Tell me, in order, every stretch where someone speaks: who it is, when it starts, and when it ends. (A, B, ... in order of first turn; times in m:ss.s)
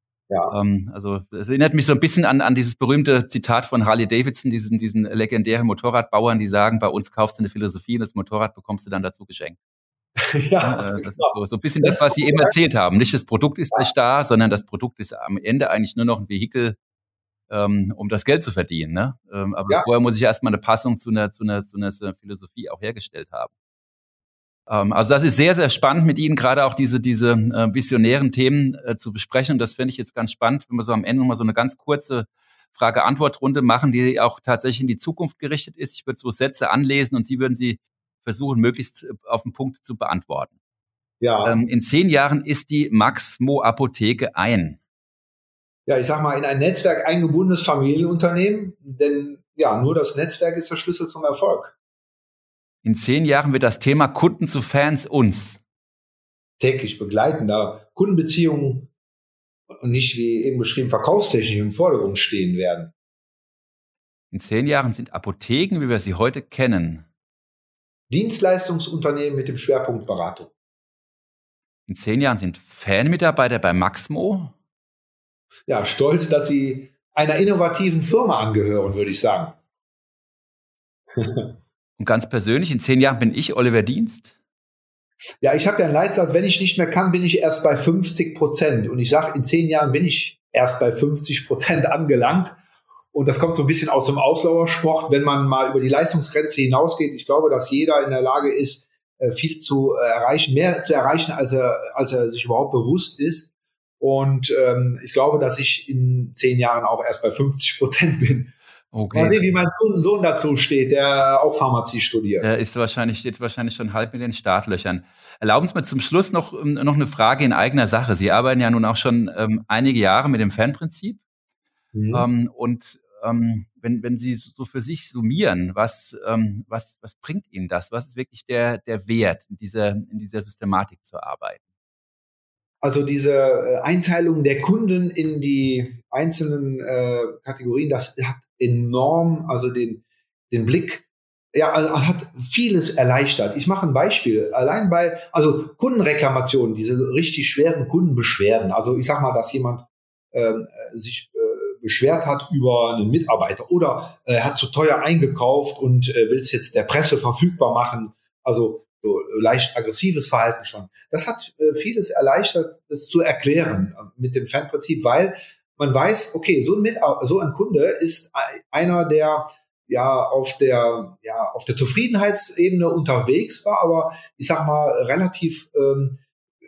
0:00.5-0:09.6 A
0:10.2-0:12.6 B
0:10.6-0:16.8 A
0:17.5-0:23.5 A
0:24.7-0:40.5 A
0:41.2-0:41.6 B
0:41.4-0:44.8 A
0:45.9-0:51.8 B
0:52.8-0:55.6 A
0:56.6-0:58.9 B
0:59.7-1:02.9 B
1:04.3-1:07.1 A
1:08.1-1:10.5 B
1:11.9-1:14.5 A
1:15.7-1:19.6 B
1:21.2-1:21.6 B
1:22.0-1:24.4 A
1:25.4-1:32.6 B
1:33.1-1:48.5 B
1:48.9-1:49.5 A
1:49.1-1:52.5 B
1:52.4-2:01.2 A
2:01.9-2:02.3 B
2:02.1-2:11.6 A
2:12.8-2:56.2 B